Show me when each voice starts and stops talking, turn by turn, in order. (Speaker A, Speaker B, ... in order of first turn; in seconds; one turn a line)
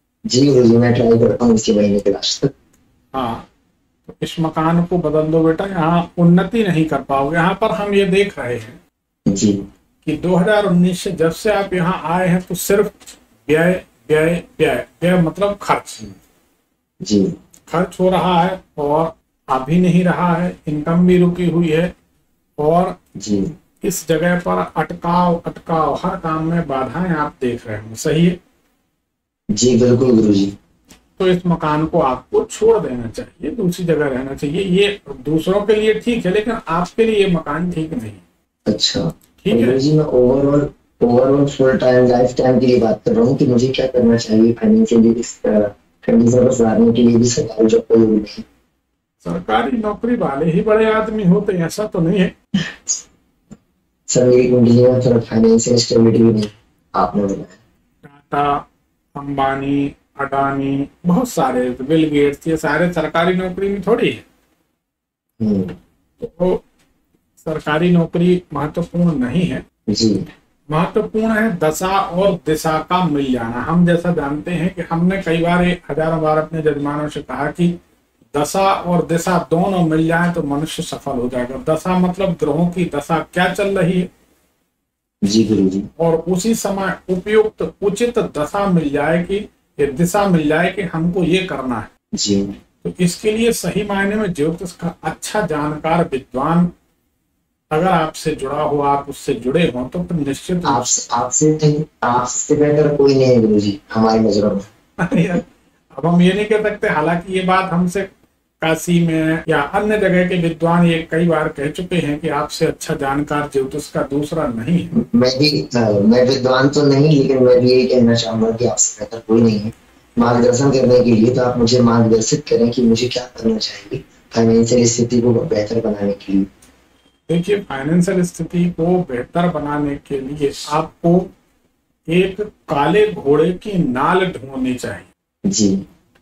Speaker A: 0.3-2.5
Speaker B: 3.1-3.5
Speaker B: 4.1-8.8
Speaker A: 9.3-9.6
Speaker B: 10.0-16.2
Speaker A: 17.0-17.3
Speaker B: 17.7-21.9
Speaker B: 22.6-23.0
Speaker A: 23.1-23.5
Speaker B: 23.8-28.4
Speaker A: 29.5-30.5
Speaker B: 31.2-38.2
Speaker A: 38.7-48.4
Speaker B: 39.4-39.8
Speaker B: 49.2-52.3
Speaker A: 52.6-53.0
Speaker A: 54.1-57.6
Speaker B: 58.0-64.2
Speaker A: 65.4-65.8
Speaker B: 66.2-66.6
Speaker B: 67.4-69.6
Speaker A: 69.9-70.2
Speaker B: 70.7-77.7
Speaker B: 78.3-84.1
Speaker A: 85.2-85.9
Speaker B: 86.0-91.9
Speaker A: 92.2-92.5
Speaker B: 92.8-96.7
Speaker B: 97.7-100.9
Speaker A: 100.7-104.7
Speaker B: 105.0-108.1
Speaker B: 108.6-114.9
Speaker A: 114.9-126.5
Speaker B: 127.3-131.3
Speaker B: 132.1-135.1
Speaker A: 135.5-135.8